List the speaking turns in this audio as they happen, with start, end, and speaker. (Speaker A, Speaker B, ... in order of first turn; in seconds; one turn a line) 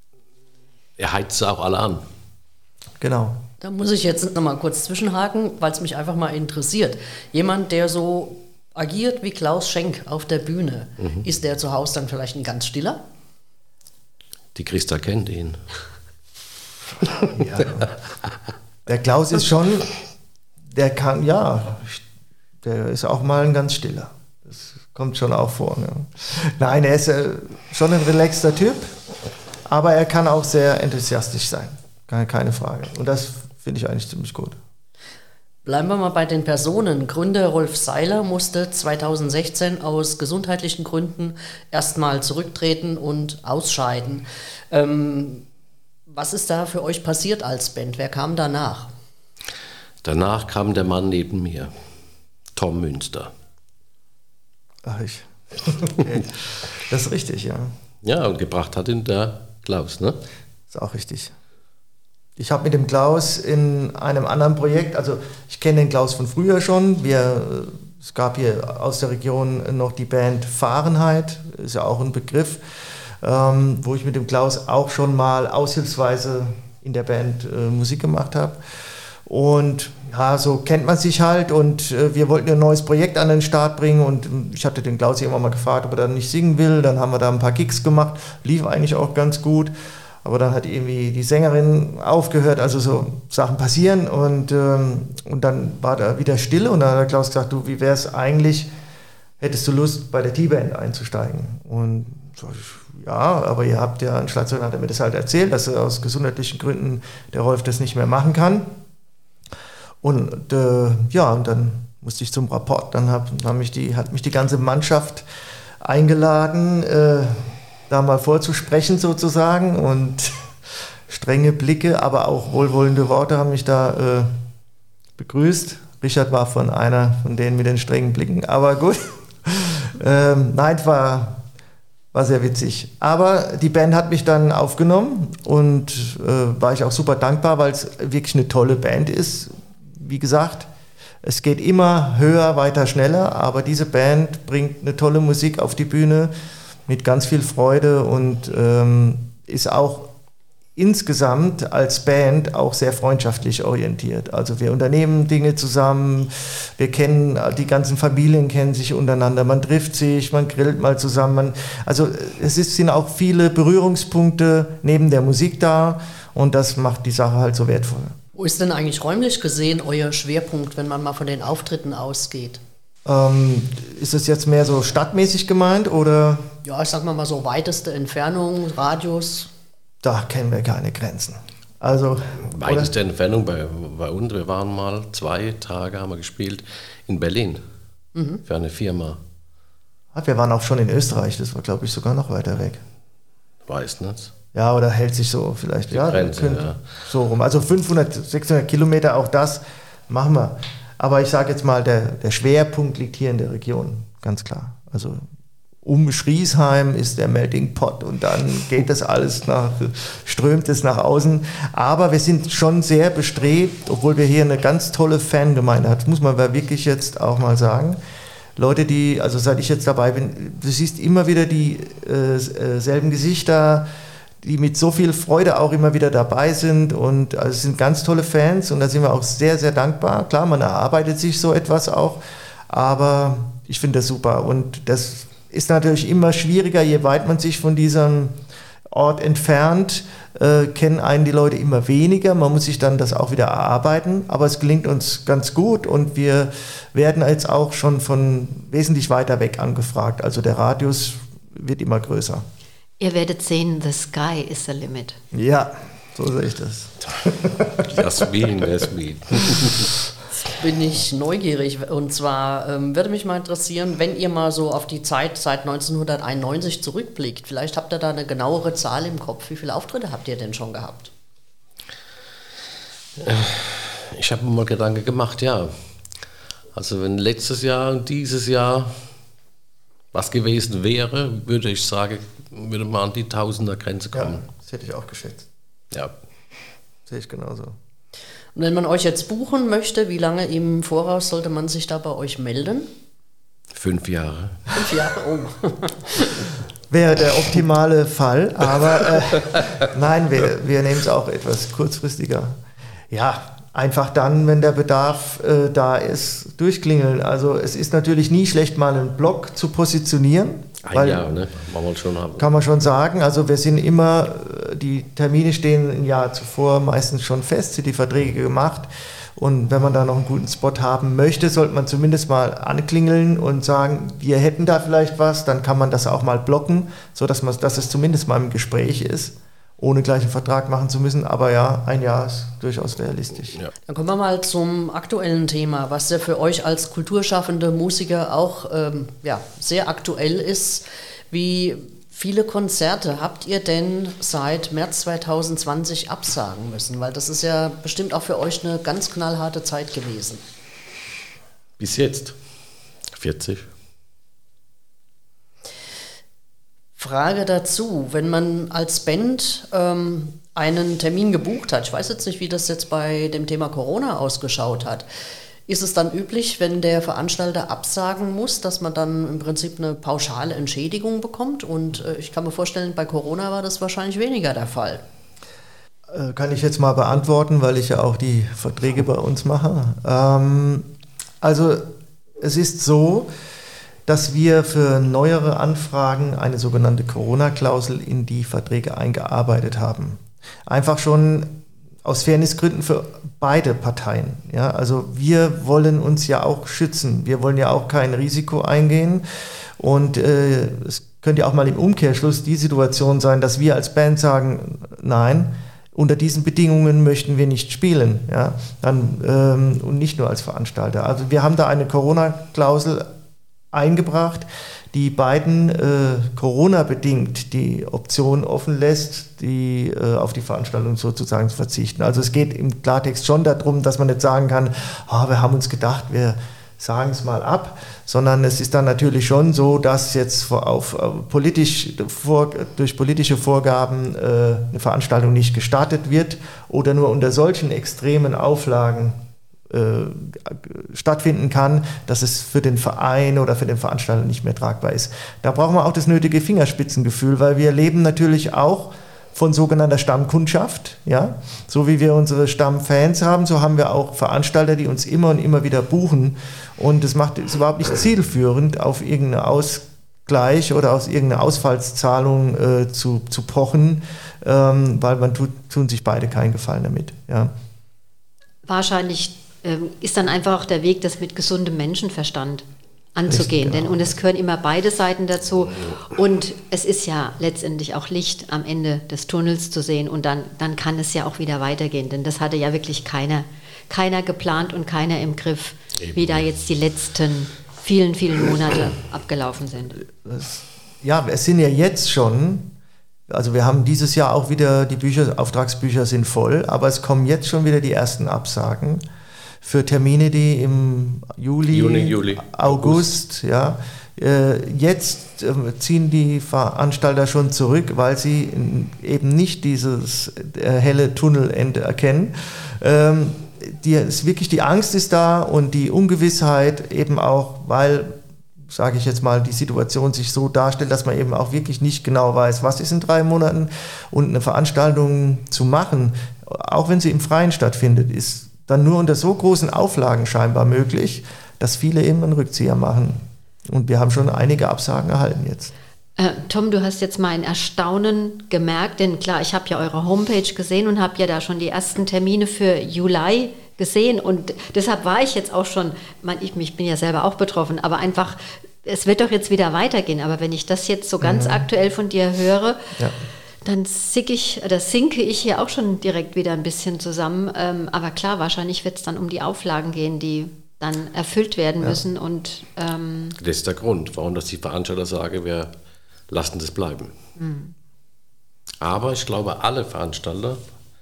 Speaker A: 1.0-2.0
Speaker B: 3.0-3.4
Speaker C: 3.6-13.0
Speaker A: 11.0-11.2
Speaker A: 14.5-15.6
Speaker B: 17.2-17.9
Speaker B: 18.9-19.9
Speaker B: 20.7-22.0
Speaker B: 22.6-28.9
Speaker B: 29.7-34.6
Speaker C: 35.6-45.5
Speaker C: 46.1-48.9
Speaker A: 50.0-51.7
Speaker A: 52.5-53.3
Speaker B: 54.8-56.3
Speaker B: 56.9-57.7
Speaker A: 58.0-60.2
Speaker B: 60.7-61.3
Speaker B: 62.4-78.6
Speaker B: 79.2-89.7
Speaker B: 90.2-98.7
Speaker B: 99.4-108.7
Speaker B: 110.0-115.2
Speaker B: 115.8-120.4
Speaker B: 121.1-124.3
Speaker B: 125.2-131.4
Speaker B: 132.1-140.7
Speaker B: 141.2-146.3
Speaker B: 146.9-150.1
Speaker B: 150.8-168.2
Speaker C: 168.3-172.6
Speaker B: 173.0-176.5
Speaker C: 176.6-179.5
Speaker B: 180.0-182.9
Speaker A: 182.5-187.6
Speaker C: 188.1-188.4
Speaker A: 188.4-189.2
Speaker B: 190.1-192.8
Speaker A: 193.7-194.3
Speaker B: 194.5-205.3
Speaker A: 195.9-197.0
Speaker B: 205.8-218.0
Speaker B: 218.6-223.9
Speaker B: 224.4-238.3
Speaker B: 238.9-252.4
Speaker D: 253.0-255.2
Speaker B: 255.3-258.6
Speaker A: 257.8-259.9
Speaker C: 260.4-271.1
Speaker A: 273.2-275.7
Speaker A: 276.7-279.0
Speaker A: 280.1-284.4
Speaker B: 284.1-285.5
Speaker B: 287.1-287.8
Speaker C: 288.5-292.9
Speaker A: 293.7-294.7
Speaker C: 294.7-296.4
Speaker B: 296.9-302.6
Speaker B: 303.1-311.3
Speaker A: 310.8-312.6
Speaker B: 312.4-333.6
Speaker C: 333.9-350.4
Speaker A: 351.8-352.4
Speaker A: 353.1-353.7
Speaker C: 357.0-365.1
Speaker C: 365.7-375.0
Speaker B: 376.1-380.9
Speaker B: 381.4-383.3
Speaker B: 384.1-399.2
Speaker B: 399.8-413.1
Speaker B: 413.7-467.5
Speaker D: 468.6-472.6
Speaker D: 473.1-490.0
Speaker B: 473.3-474.1
Speaker A: 486.0-486.4
Speaker B: 490.1-492.7
Speaker B: 493.3-499.0
Speaker B: 499.6-518.2
Speaker A: 501.7-503.1
Speaker B: 518.7-535.7
Speaker D: 536.2-552.9
Speaker B: 551.2-551.6
Speaker D: 553.6-563.4
Speaker A: 563.4-565.7
Speaker A: 566.3-567.1
Speaker D: 567.4-567.7
Speaker A: 568.8-570.6